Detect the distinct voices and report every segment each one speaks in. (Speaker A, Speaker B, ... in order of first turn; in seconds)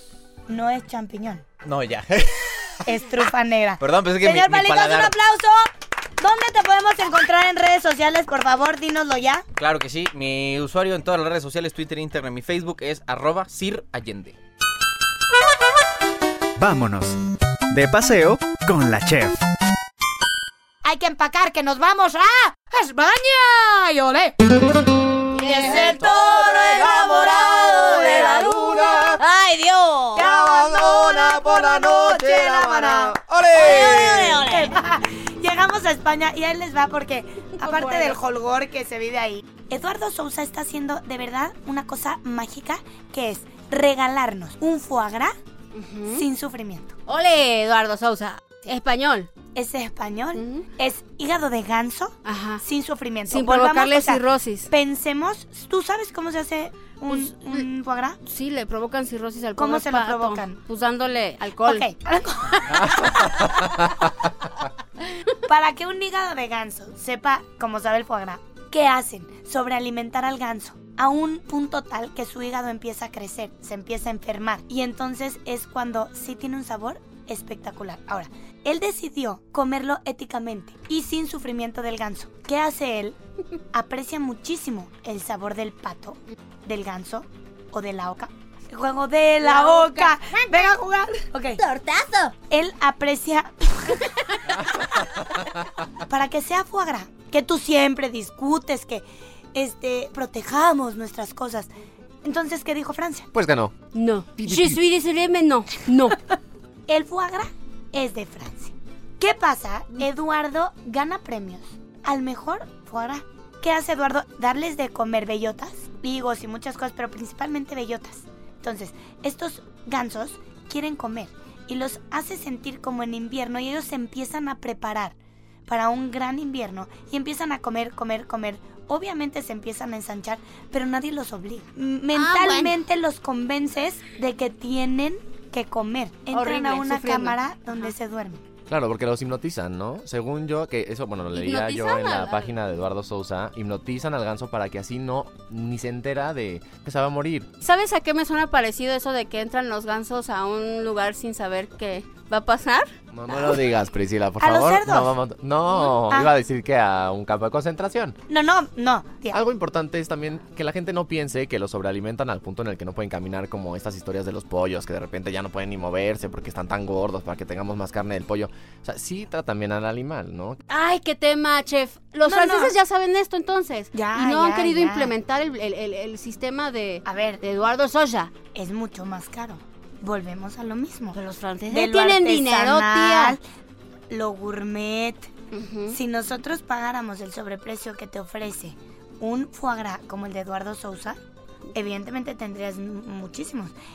Speaker A: 0.5-1.4, 2.9-9.4, 20.8-24.4, 25.4-28.4, 30.1-45.3, 46.1-46.9, 49.5-58.2, 59.6-60.6, 61.6-63.4, 65.5-83.2, 83.7-91.6, 92.5-94.1, 96.0-101.7, 102.2-103.3, 106.9-125.1, 125.7-138.4, 154.4-155.1, 158.3-159.4, 172.2-172.7, 173.9-175.1, 177.0-177.4, 178.5-181.2, 181.7-183.4, 184.1-185.3, 185.9-191.2, 191.7-193.7
Speaker B: 1.6-2.8, 3.8-5.1, 9.6-14.4, 26.2-29.1, 30.2-34.5
Speaker C: 16.6-17.2, 17.7-19.4
Speaker D: 25.4-26.5, 28.0-30.2, 37.6-38.2, 45.7-46.2, 47.1-49.3, 50.4-50.6, 52.2-52.6, 53.3-54.7, 57.1-57.7, 58.2-61.9, 89.4-90.1, 91.7-92.0, 103.9-106.2, 132.1-132.7, 136.3-137.9, 141.3-142.5, 147.6-152.9, 170.7-178.3, 181.1-183.4, 185.5-185.9
Speaker E: 27.9-28.9, 103.3-103.7, 104.4-104.8, 138.7-147.5, 153.1-158.2, 159.3-170.6